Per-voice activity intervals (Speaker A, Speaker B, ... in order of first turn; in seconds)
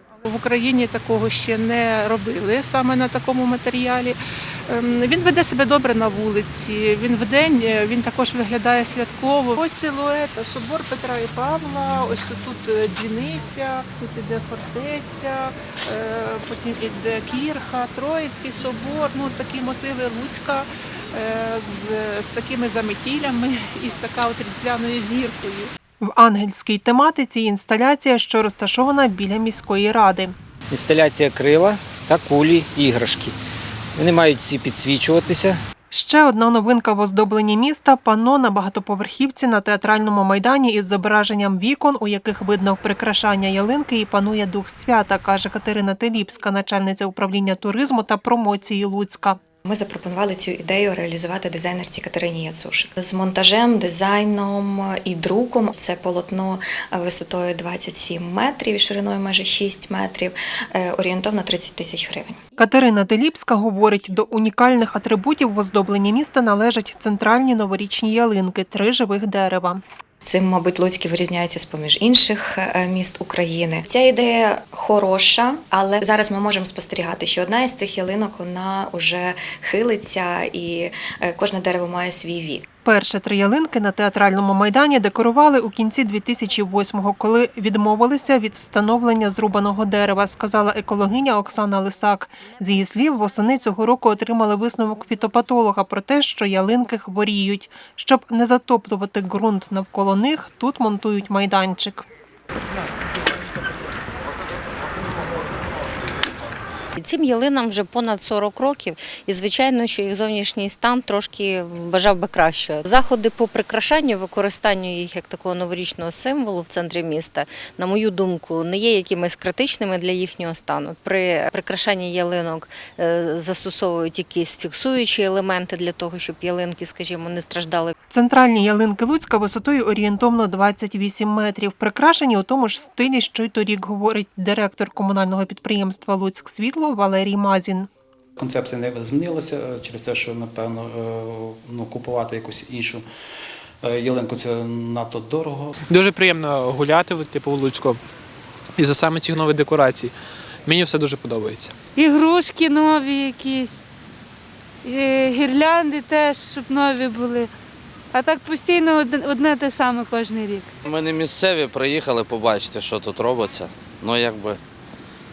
Speaker A: 0.2-25.7
Speaker B: 26.0-30.4, 35.9-49.4, 62.6-69.8, 82.8-102.0, 128.1-137.9
Speaker C: 30.7-33.3, 34.0-35.6
Speaker D: 49.6-62.4, 70.2-82.7
Speaker E: 107.0-127.9
Speaker F: 138.4-143.0, 143.8-145.7
Speaker G: 145.9-148.0, 148.8-150.1, 150.7-151.8
Speaker H: 152.0-153.8, 154.8-157.5, 158.1-160.7
Speaker I: 160.8-164.6